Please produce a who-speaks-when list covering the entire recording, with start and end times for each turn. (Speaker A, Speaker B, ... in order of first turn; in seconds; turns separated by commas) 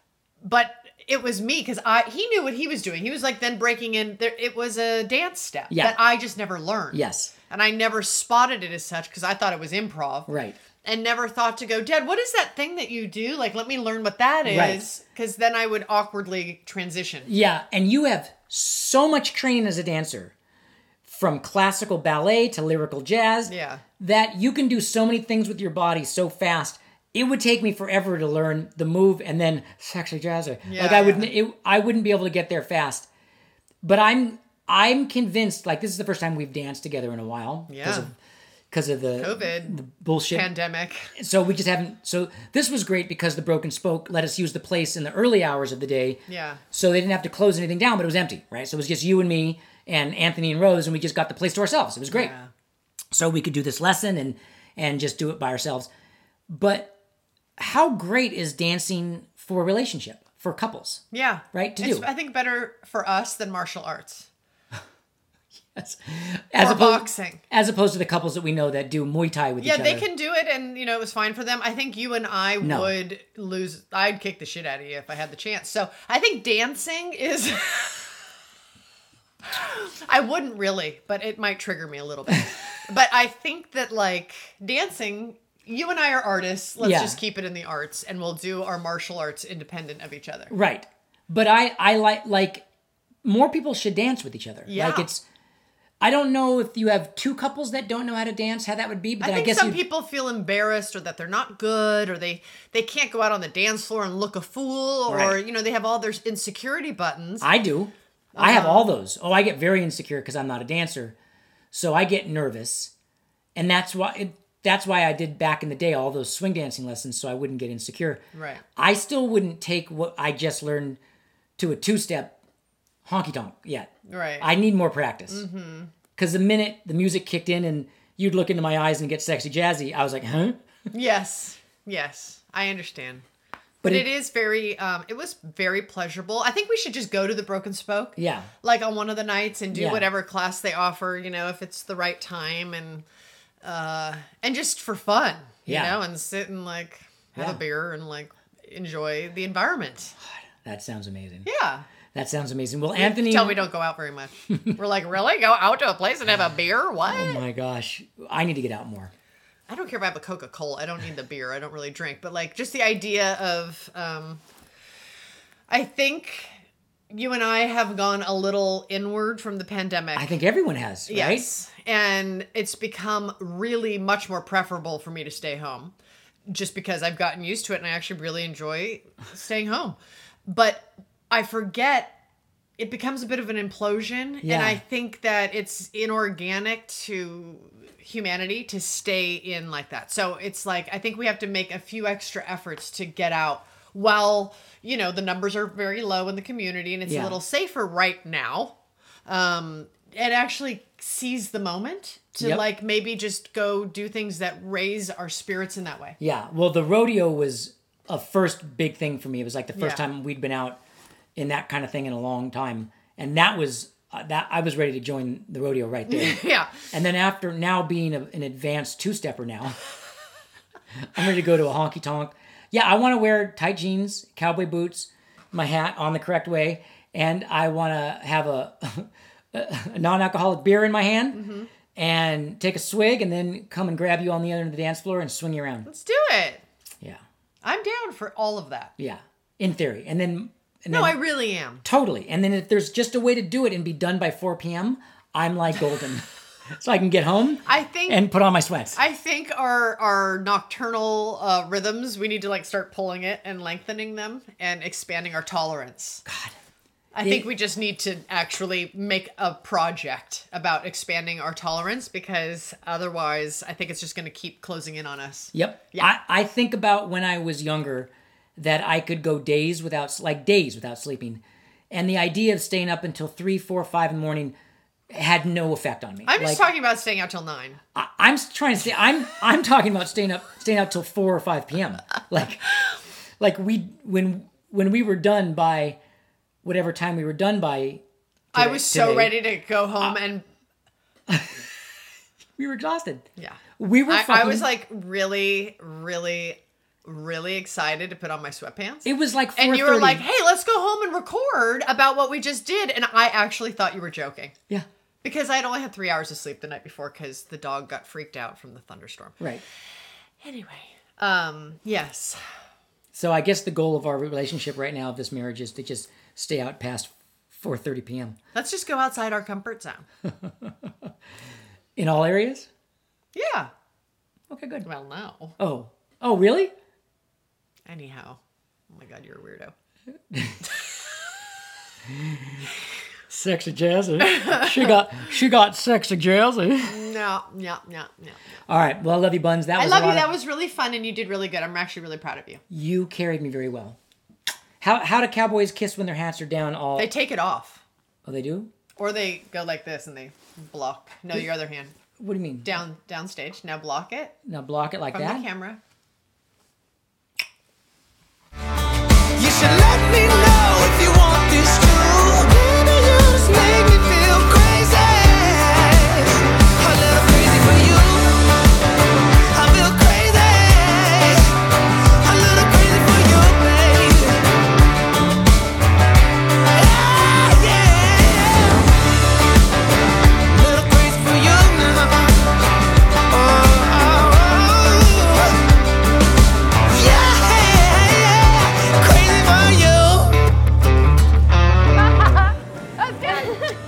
Speaker A: 0.4-10.3, Speaker B: 5.7-6.0, Speaker B: 6.9-7.3, Speaker B: 10.3-10.6, Speaker A: 10.8-17.3, Speaker B: 14.4-14.8, Speaker B: 17.2-20.3, Speaker B: 21.0-33.1, Speaker A: 23.5-23.8, Speaker A: 30.6-31.3, Speaker B: 33.8-38.1, Speaker A: 37.7-38.1, Speaker B: 38.7-40.5, Speaker A: 39.2-39.8, Speaker A: 40.3-41.1, Speaker B: 41.1-46.2, Speaker A: 46.3-46.6, Speaker B: 46.7-52.3, Speaker A: 52.1-52.5, Speaker B: 53.1-55.9, Speaker B: 56.5-56.9, Speaker B: 57.6-62.1, Speaker A: 61.1-64.3, Speaker B: 65.7-70.0, Speaker A: 66.6-67.4, Speaker A: 69.6-78.2, Speaker B: 72.6-72.9, Speaker A: 79.5-90.5, Speaker B: 86.8-87.2, Speaker B: 90.5-92.6, Speaker B: 93.2-95.2, Speaker A: 94.7-95.1, Speaker B: 96.0-99.8, Speaker A: 99.2-107.5, Speaker B: 105.1-105.4, Speaker B: 107.4-111.1, Speaker A: 108.3-108.9, Speaker B: 111.7-112.9, Speaker B: 113.5-118.2, Speaker A: 118.3-118.6, Speaker B: 118.8-121.0, Speaker B: 121.6-122.3, Speaker B: 123.0-125.4, Speaker A: 124.1-124.5, Speaker A: 125.3-125.9, Speaker B: 126.2-130.6, Speaker A: 130.9-133.2, Speaker B: 133.8-134.1, Speaker A: 133.8-143.1, Speaker B: 138.2-138.5, Speaker B: 139.7-140.1, Speaker A: 143.6-150.1, Speaker B: 145.7-146.0, Speaker B: 150.5-151.5, Speaker A: 151.4-151.9, Speaker B: 152.1-153.6, Speaker A: 152.9-157.4, Speaker B: 157.0-159.1, Speaker A: 159.7-164.4, Speaker A: 165.7-166.6, Speaker A: 167.1-170.3, Speaker B: 170.1-171.4, Speaker A: 171.1-175.9, Speaker A: 176.5-182.2, Speaker A: 182.8-198.7, Speaker B: 184.4-184.8, Speaker B: 197.1-197.4, Speaker A: 199.3-206.2, Speaker B: 206.2-210.8, Speaker A: 209.8-210.0, Speaker B: 211.3-219.8, Speaker A: 216.1-216.8, Speaker B: 221.1-231.4, Speaker A: 231.3-231.7, Speaker B: 231.9-235.9, Speaker A: 235.8-236.6, Speaker A: 237.6-238.9, Speaker B: 239.0-241.2, Speaker A: 240.9-241.8, Speaker B: 241.8-246.2, Speaker B: 246.8-249.0, Speaker A: 247.6-248.2, Speaker A: 248.9-256.2, Speaker B: 256.2-256.6, Speaker A: 257.1-266.1, Speaker B: 257.2-257.5, Speaker B: 265.5-274.5, Speaker B: 275.1-276.7, Speaker A: 276.3-277.8, Speaker B: 277.9-282.7, Speaker B: 283.4-286.0, Speaker B: 286.6-288.0, Speaker B: 288.5-289.3, Speaker A: 288.5-290.4, Speaker B: 291.3-291.6, Speaker B: 292.6-293.2, Speaker A: 293.4-304.5, Speaker B: 293.8-294.7, Speaker B: 299.0-300.2, Speaker A: 305.2-309.4, Speaker A: 310.4-312.4, Speaker B: 313.1-318.4, Speaker A: 318.5-320.1, Speaker B: 320.4-321.1, Speaker B: 322.0-322.7, Speaker A: 323.3-323.7, Speaker B: 324.5-324.9, Speaker A: 324.8-325.6, Speaker B: 325.6-326.7, Speaker A: 327.9-329.7, Speaker B: 330.3-330.7, Speaker B: 332.1-332.6, Speaker B: 333.3-337.1, Speaker A: 336.8-338.6, Speaker B: 338.7-340.3, Speaker A: 339.8-342.6, Speaker B: 342.7-344.0, Speaker B: 344.8-347.1, Speaker A: 346.9-347.8, Speaker B: 348.2-348.7, Speaker A: 349.0-351.9, Speaker B: 352.2-352.7, Speaker A: 352.6-354.3, Speaker B: 354.4-355.4, Speaker A: 355.1-355.8, Speaker C: 359.3-368.4, Speaker C: 369.5-371.5, Speaker C: 372.2-374.4, Speaker C: 376.7-378.9, Speaker C: 380.5-382.4, Speaker C: 383.3-385.6, Speaker C: 386.9-390.4, Speaker A: 392.4-393.8